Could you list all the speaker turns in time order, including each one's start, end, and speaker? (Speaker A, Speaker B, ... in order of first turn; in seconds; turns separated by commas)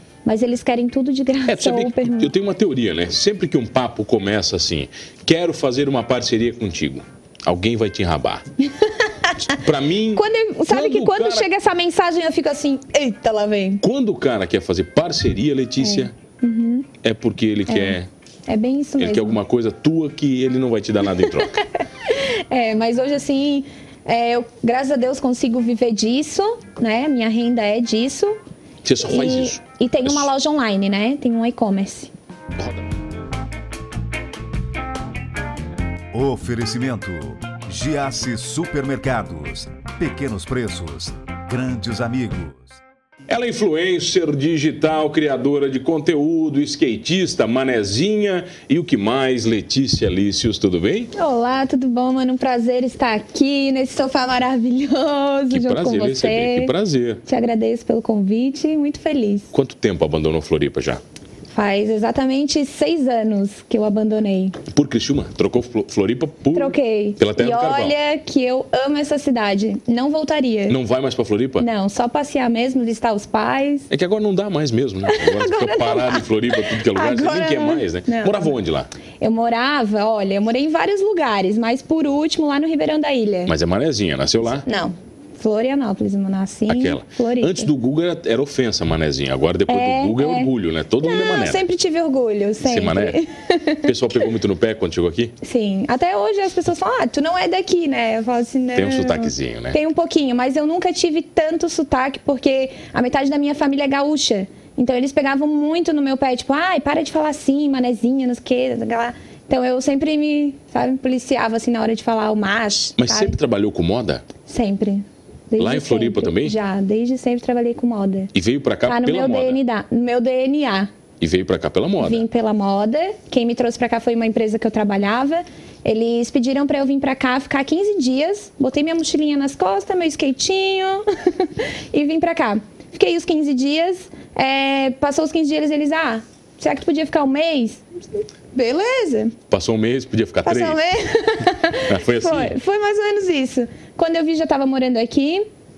Speaker A: 0.2-2.3, Speaker B: 1.5-8.4, Speaker A: 8.8-9.5, Speaker B: 9.5-11.5, Speaker A: 10.1-13.8, Speaker B: 13.8-16.1, Speaker A: 15.8-16.9, Speaker B: 17.0-18.1, Speaker A: 17.7-19.4, Speaker B: 19.0-21.6, Speaker A: 21.1-28.4, Speaker B: 28.8-30.3, Speaker A: 29.0-32.1, Speaker B: 32.5-32.9, Speaker C: 36.1-42.8, Speaker B: 43.3-51.1, Speaker A: 51.1-56.7, Speaker B: 55.5-57.2, Speaker A: 57.2-59.5, Speaker B: 59.5-61.0, Speaker A: 61.5-64.6, Speaker B: 64.7-67.9, Speaker A: 66.5-70.8, Speaker B: 70.7-71.7, Speaker A: 71.6-73.9, Speaker B: 73.9-78.9, Speaker A: 75.1-76.2, Speaker A: 76.8-78.6, Speaker A: 79.2-83.5, Speaker B: 83.5-84.6, Speaker A: 84.6-87.7, Speaker B: 86.7-91.6, Speaker A: 89.7-93.9, Speaker B: 92.6-93.2, Speaker B: 93.8-95.3, Speaker A: 95.4-113.3, Speaker B: 98.7-99.8, Speaker B: 113.0-114.2, Speaker A: 114.5-118.3, Speaker B: 115.6-116.5, Speaker B: 118.3-119.6, Speaker A: 118.8-120.9, Speaker B: 121.2-122.2, Speaker A: 122.0-137.8, Speaker A: 138.5-139.3, Speaker B: 139.5-140.8, Speaker A: 140.4-145.4, Speaker B: 141.8-142.6